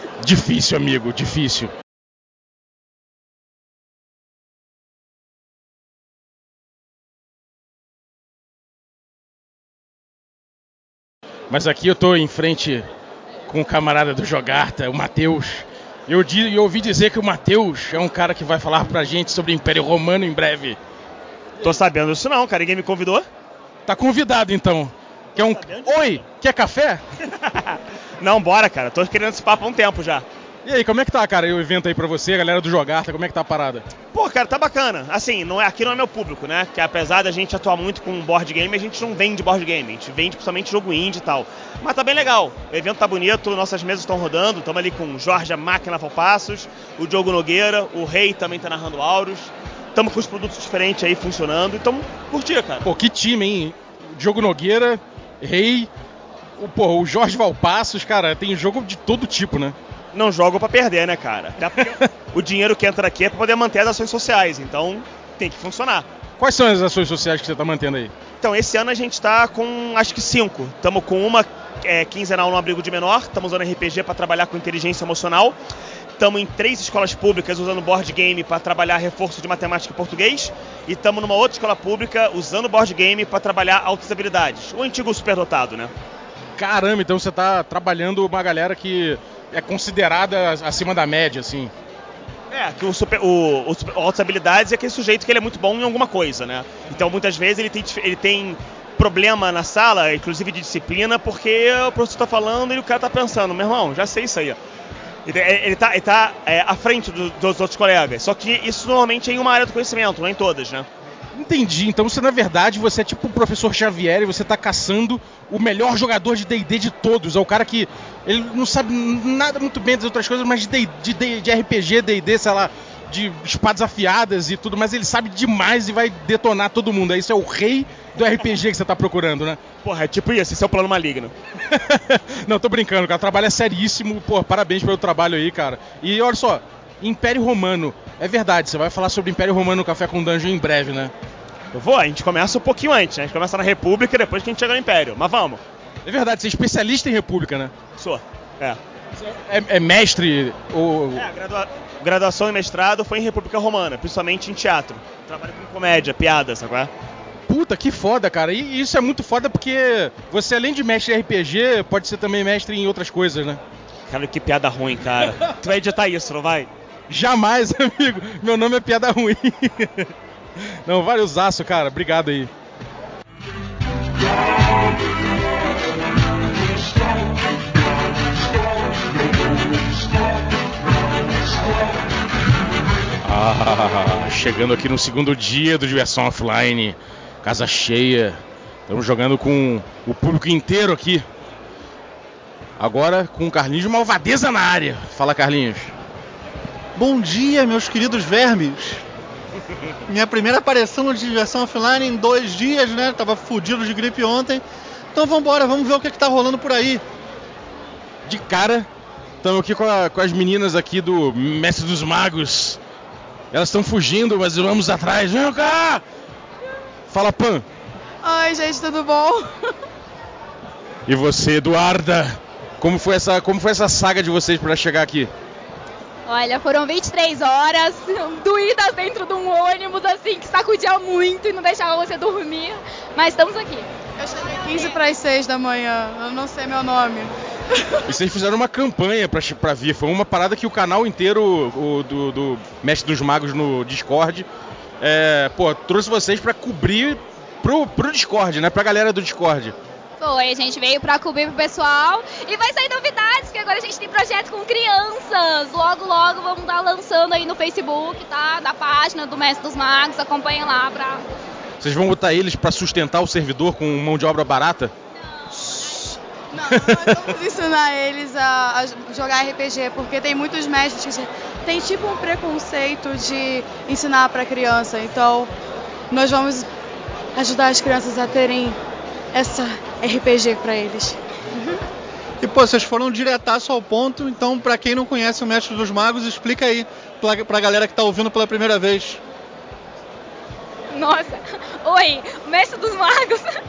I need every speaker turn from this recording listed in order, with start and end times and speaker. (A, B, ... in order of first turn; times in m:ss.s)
0:00.2-0:01.7 A
0:11.5-0:12.9 A
0:13.5-0:20.8 A
0:21.6-0:23.3 B
0:23.8-0:27.0 A
0:25.3-0:26.2 B
0:27.5-0:30.2 B
0:30.6-0:33.8 A
0:34.1-0:52.8 B
0:52.8-0:55.9 A
0:56.6-0:59.8 A
1:00.1-1:06.0 B
1:06.4-1:08.1 A
1:08.4-1:15.6 B
1:16.2-1:25.9 B
1:26.6-1:31.7 A
1:32.5-1:44.6 B
1:45.2-1:50.8 B
1:51.3-2:09.6 A
2:09.8-2:11.3 B
2:11.7-2:21.1 A
2:21.7-2:25.6 B
2:26.0-2:27.7 A
2:28.0-2:28.8 B
2:29.2-2:31.2 A
2:31.1-2:36.9 B
2:37.5-2:43.6 A
2:44.1-2:46.7 B
2:47.1-2:50.1 A
2:50.8-2:52.5 A
3:03.2-3:11.2 A
3:12.8-3:15.9 A
3:16.9-3:19.0 C
3:20.1-3:24.6 C
3:25.1-3:27.0 C
3:28.2-3:28.9 A
3:29.4-3:32.8 A
3:33.5-3:36.0 A
3:37.1-3:37.6 A
3:38.2-3:39.4 D
3:41.0-3:45.3 A
3:46.2-3:53.9 E
3:54.2-3:57.3 D
3:58.1-4:04.5 A
4:05.0-4:09.7 A
4:10.2-4:21.2 E
4:21.8-4:24.9 A
4:26.6-4:35.5 D
4:26.7-4:27.3 A
4:36.1-4:36.6 D
4:37.4-4:38.7 D
4:39.3-4:41.1 D
4:42.4-4:49.2 C
4:50.9-4:53.5 E